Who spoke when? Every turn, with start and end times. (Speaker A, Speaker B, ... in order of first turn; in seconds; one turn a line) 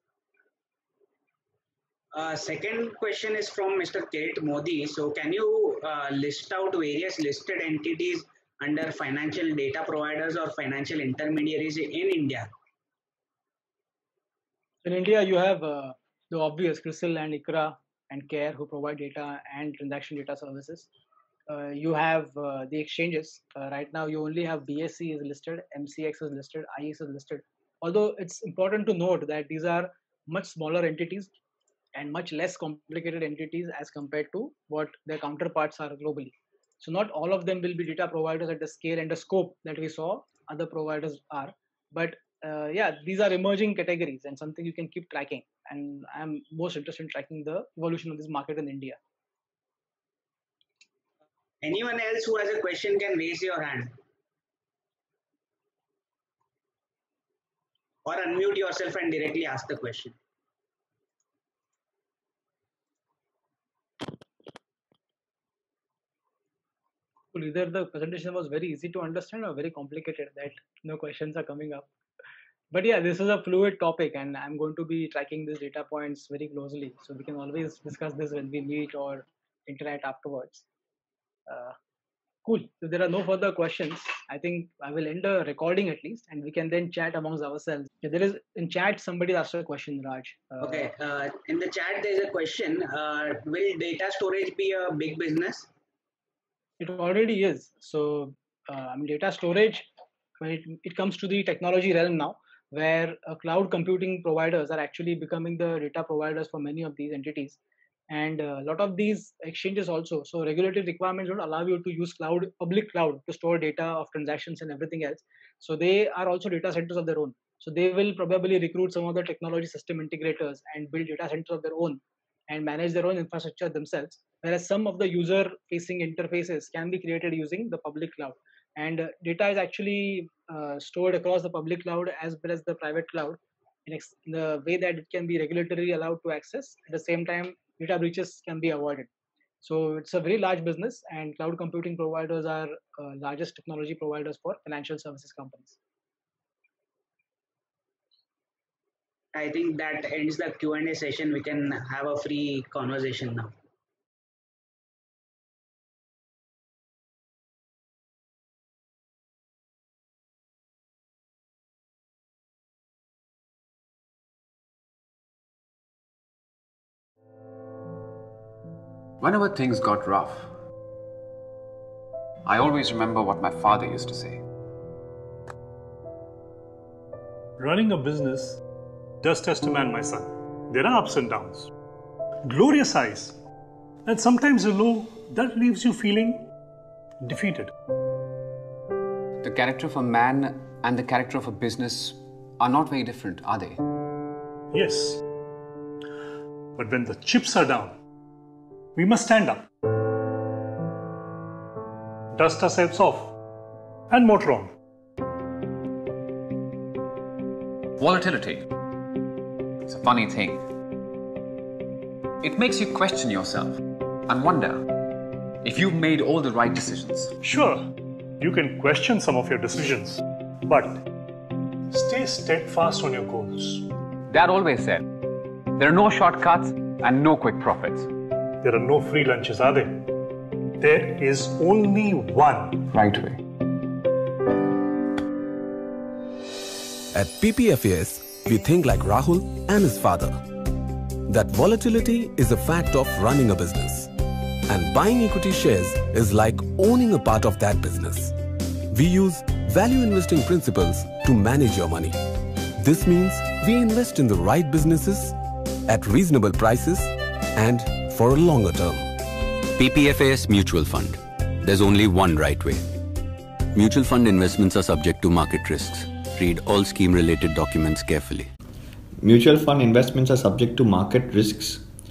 Speaker A: 2.1-12.5
Speaker B: 14.8-20.9
Speaker B: 21.5-31.3
Speaker B: 31.9-49.0
Speaker A: 51.6-53.9
Speaker A: 58.0-60.1
Speaker B: 67.3-71.9
Speaker B: 72.7-80.7
Speaker B: 81.5-81.8
Speaker B: 82.4-90.9
Speaker A: 90.6-95.7
Speaker B: 96.8-99.9
Speaker B: 100.4-107.6
Speaker B: 108.1-139.1
Speaker B: 139.6-145.8
Speaker A: 149.3-153.5
Speaker C: 169.2-170.5
Speaker C: 172.4-174.4
Speaker D: 177.6-178.6
Speaker D: 179.2-181.7
Speaker D: 182.4-183.4
Speaker D: 184.0-186.4
Speaker D: 187.2-187.7
Speaker C: 189.4-193.8
Speaker D: 194.7-195.2
Speaker D: 196.8-197.9
Speaker D: 198.9-199.7
Speaker D: 202.3-203.3
Speaker D: 204.1-204.7
Speaker C: 208.0-208.7
Speaker C: 209.8-210.6
Speaker C: 212.4-214.9
Speaker C: 215.6-217.3
Speaker D: 217.4-221.1
Speaker D: 221.9-223.9
Speaker C: 224.3-225.1
Speaker C: 225.7-228.1
Speaker D: 228.6-230.1
Speaker D: 230.8-232.9
Speaker C: 232.9-233.4
Speaker E: 237.1-240.6
Speaker E: 241.2-244.1
Speaker E: 244.7-248.3
Speaker E: 248.9-252.2
Speaker E: 252.7-259.1
Speaker F: 259.8-262.9
Speaker F: 263.7-268.5
Speaker G: 269.2-271.8